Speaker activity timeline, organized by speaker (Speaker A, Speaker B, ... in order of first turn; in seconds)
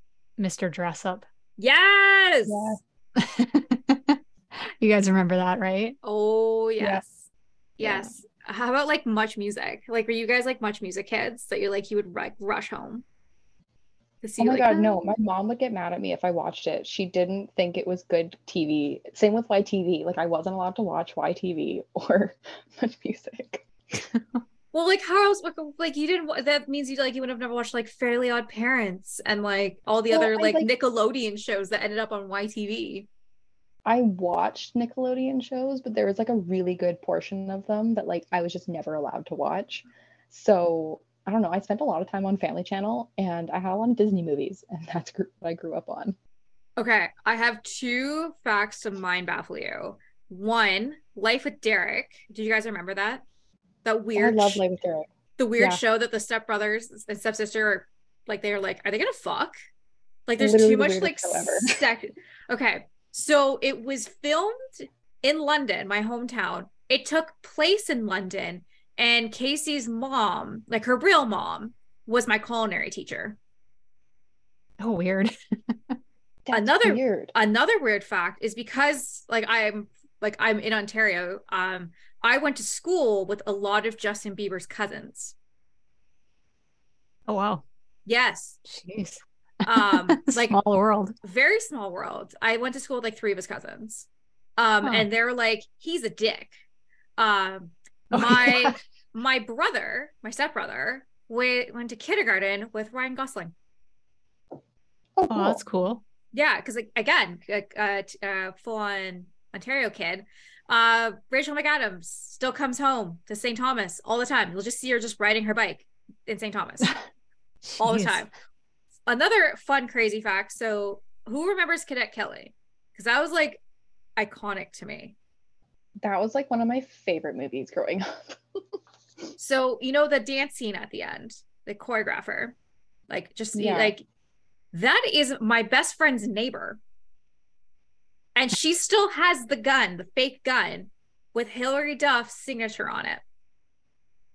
Speaker A: 0.4-1.2, 3.2-6.0, 24.1-24.4, 74.8-76.0, 87.3-87.6, 88.6-91.1, 98.1-98.8, 105.3-106.0, 117.7-118.2
Speaker B: 1.6-2.8, 6.0-13.0, 14.2-15.0, 24.7-33.1, 46.8-53.2, 53.8-54.6, 55.4-59.5, 60.3-73.4, 76.5-85.3, 88.0-88.6, 89.6-90.5, 91.2-96.6, 97.2-103.5, 106.3-116.9, 117.8-118.3, 119.1-123.6, 124.2-125.1, 129.4-132.6, 133.1-134.0, 134.7-136.8, 138.3-143.2
Speaker C: 2.5-2.8, 7.8-8.1, 14.4-23.7, 30.1-30.7, 33.8-46.1, 54.1-55.1, 60.4-61.8, 76.4-77.3, 105.2-105.6, 126.0-128.6, 133.5-133.9